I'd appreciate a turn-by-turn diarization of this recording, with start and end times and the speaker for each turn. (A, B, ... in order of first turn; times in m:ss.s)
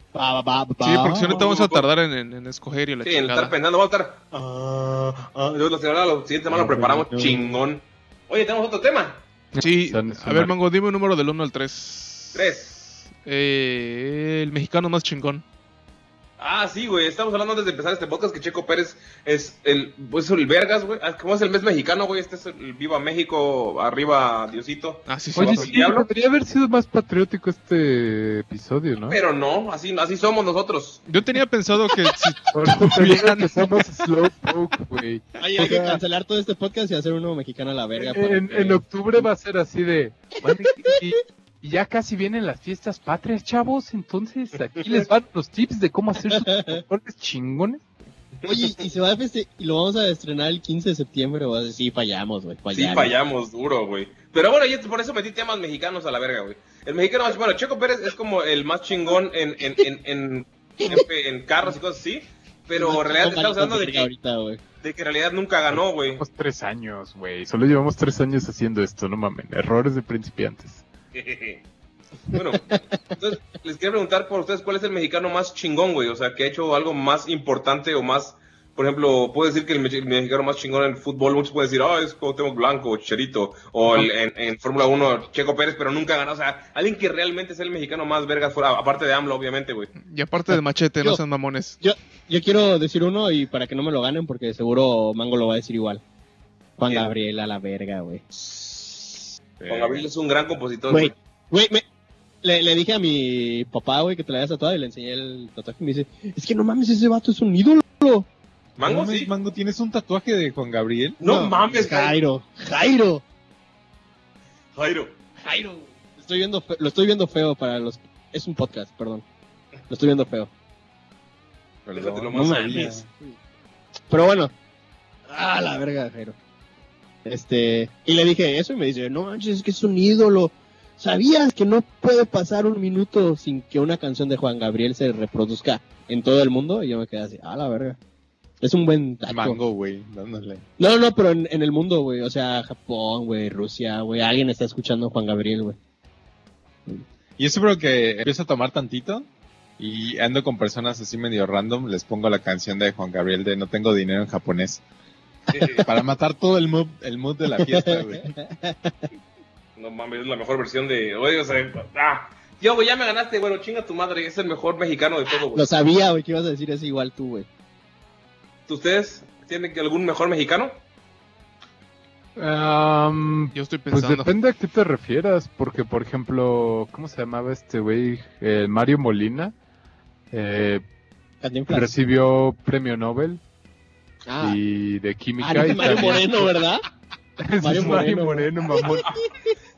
0:00.1-0:01.4 A
0:00.8-0:03.6 B
0:01.1-0:01.4 C
0:01.3-0:01.9 D
0:03.0-0:04.4 D
0:05.3-0:09.2 D
0:06.5-0:07.6 C
0:09.5-0:10.6 E
0:09.6-0:15.4 B
0:12.3-0:12.8 D
0:16.4-0:26.0 D
0:25.1-0:25.7 B
0:25.4-0:29.2 E
0:29.0-0:31.0 D
0:31.1-0:33.7 B
0:32.5-0:36.0 E
0:35.4-0:38.8 A
0:38.1-0:47.8 E
0:46.3-0:46.8 A
0:48.4-0:48.8 D
0:48.5-0:53.2 A
0:52.7-1:04.1 D
1:02.7-1:04.6 A
1:04.8-1:06.2 D
1:05.7-1:10.8 E
1:11.1-1:11.6 D
1:12.3-1:29.9 D
1:12.6-1:12.8 A
1:30.0-1:31.8 B
1:31.8-1:36.0 A
1:36.8-1:38.2 A
1:38.4-1:39.0 D
1:39.6-1:40.0 C
1:39.7-1:41.1 D
1:40.9-1:41.8 A
1:42.4-1:48.3 A
1:48.8-1:49.3 D
1:48.8-1:51.2 C
1:51.2-1:52.2 D
1:51.2-1:53.2 A
1:54.8-1:55.2 D
1:55.4-1:59.2 A
1:59.9-2:00.5 A
2:01.9-2:03.1 C
2:02.0-2:02.9 D
2:02.3-2:03.4 A
2:04.1-2:04.5 A
2:05.3-2:06.4 A
2:07.2-2:18.0 A
2:18.6-2:19.6 A
2:19.3-2:20.6 C
2:20.8-2:25.8 A
2:27.4-2:29.3 C
2:29.8-2:34.8 C
2:35.5-2:35.9 D
2:35.8-2:38.3 C
2:37.5-2:39.1 A
2:39.8-2:45.7 D
2:45.5-2:47.5 A
2:48.7-2:50.8 D
2:52.4-2:59.6 E
2:53.5-2:54.3 B
3:00.3-3:00.8 E
3:01.4-3:01.9 A
3:01.7-3:03.4 E
3:04.3-3:04.6 A
3:04.4-3:06.6 E
3:05.4-3:06.8 A
3:07.4-3:09.1 E
3:07.6-3:09.5 A
3:08.8-3:09.2 D